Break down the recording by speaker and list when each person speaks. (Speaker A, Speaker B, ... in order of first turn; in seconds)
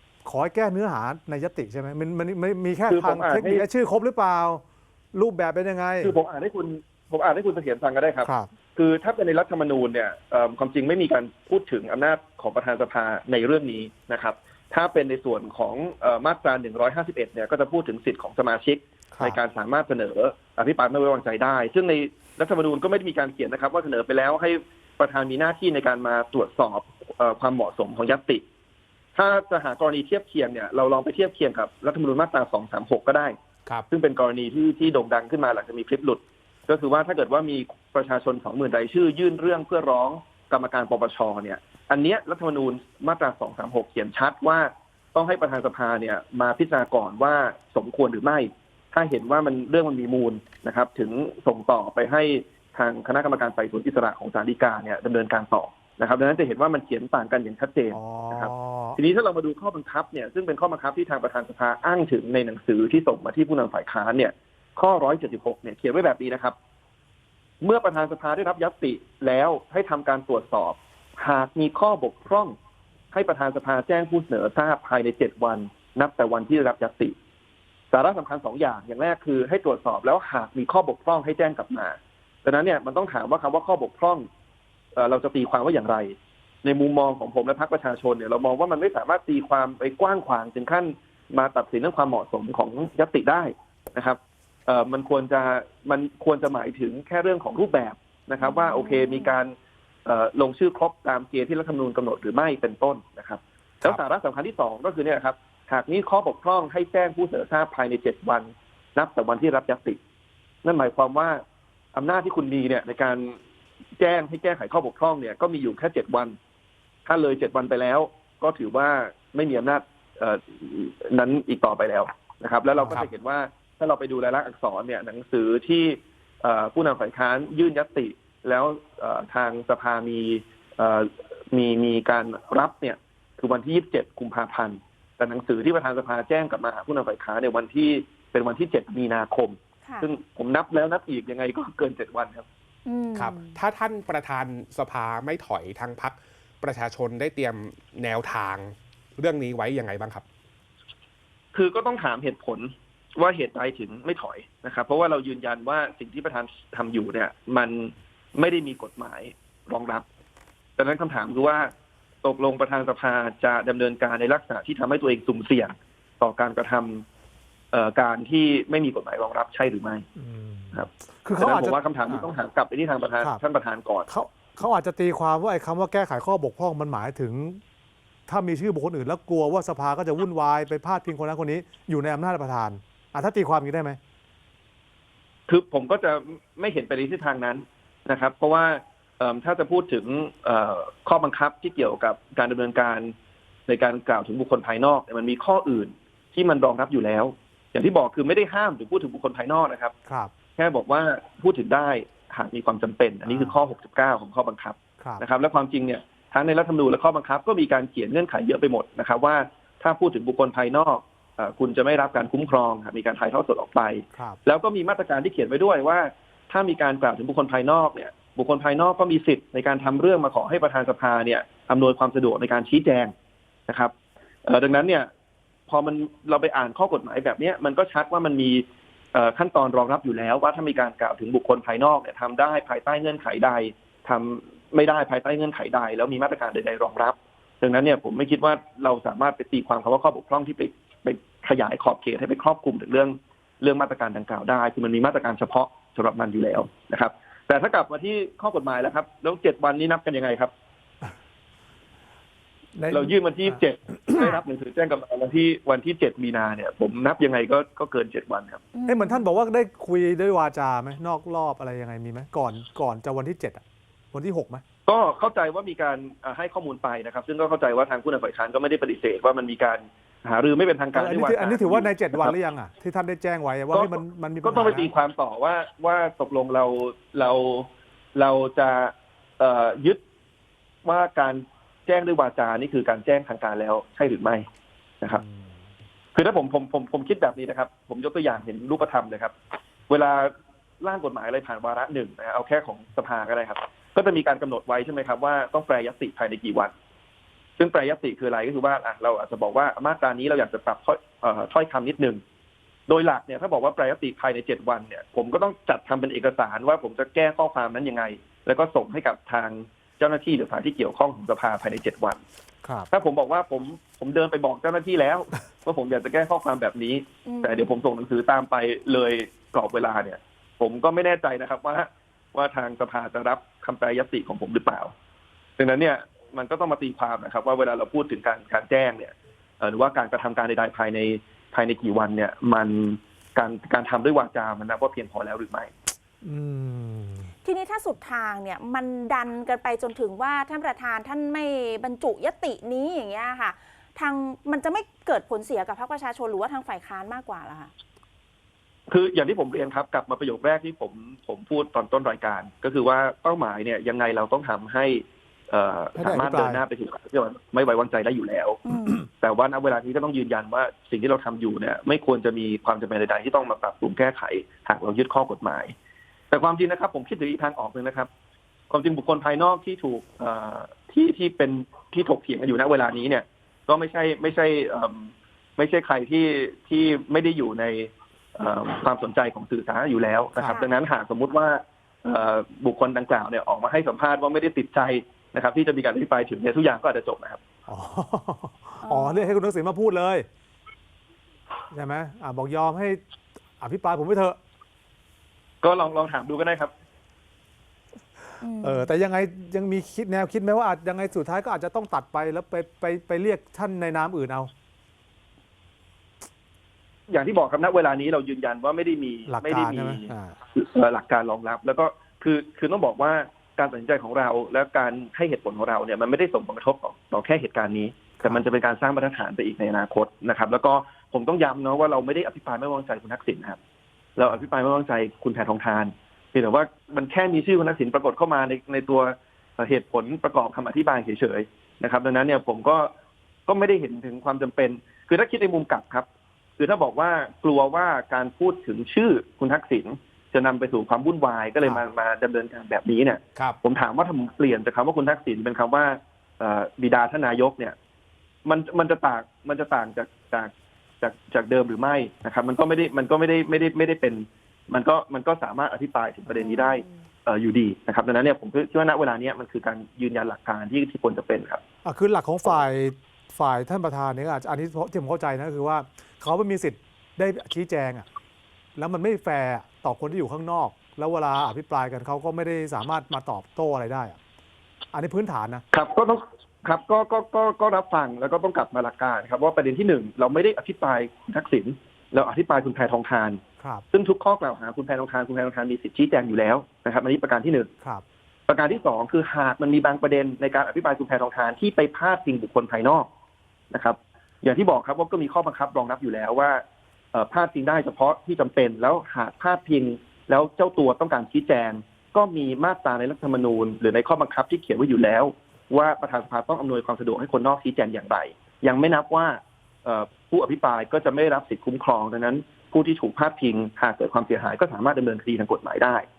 Speaker A: 0.2-6.1, 8.2-8.5, 19.1-19.4, 57.9-59.0, 170.2-172.2, 174.1-177.6, 178.3-184.0, 203.2-203.6, 214.1-214.4, 252.8-254.3, 258.9-264.6, 270.9-274.9, 285.1-285.6, 312.6-312.9, 336.2-337.3, 355.9-356.6, 380.3-380.6, 387.7-390.3, 391.7-393.0, 393.6-394.4, 398.6-404.5, 409.3-410.4, 461.8-468.0, 468.7-474.2, 474.9-475.6
Speaker B: 2.9-3.6, 6.0-28.4, 29.1-33.4, 33.9-66.5, 67.6-72.5, 73.1-77.1, 77.9-84.3, 85.0-99.5, 100.0-110.0, 110.6-111.4, 111.9-113.4, 114.0-116.4, 117.0-142.4, 151.5-160.0, 160.8-161.7, 162.2-167.0, 167.7-170.0, 170.7-174.1, 185.5-193.1, 193.7-199.9, 200.6-223.1, 223.7-223.9, 224.4-225.1, 225.7-250.5, 252.9-258.6, 264.9-272.3, 273.7-280.0, 280.8-284.4, 286.1-289.3, 289.9-296.7, 297.6-302.2, 302.9-312.2, 312.9-324.9, 325.6-335.7, 348.9-365.7, 366.3-368.1, 368.7-387.4, 395.6-396.7, 407.1-423.6, 424.1-432.9, 433.5-436.1, 436.6-447.7, 448.4-461.6, 475.7-483.4, 483.9-487.7, 488.5-493.1, 493.7-496.6, 497.1-516.0
Speaker C: 98.4-99.3, 142.8-143.6, 254.1-254.4, 258.7-259.2, 317.2-317.7, 337.4-347.7, 358.6-359.0, 380.4-380.7, 388.8-389.4, 398.4-398.9, 456.3-456.9
Speaker D: 122.8-123.1, 143.1-150.2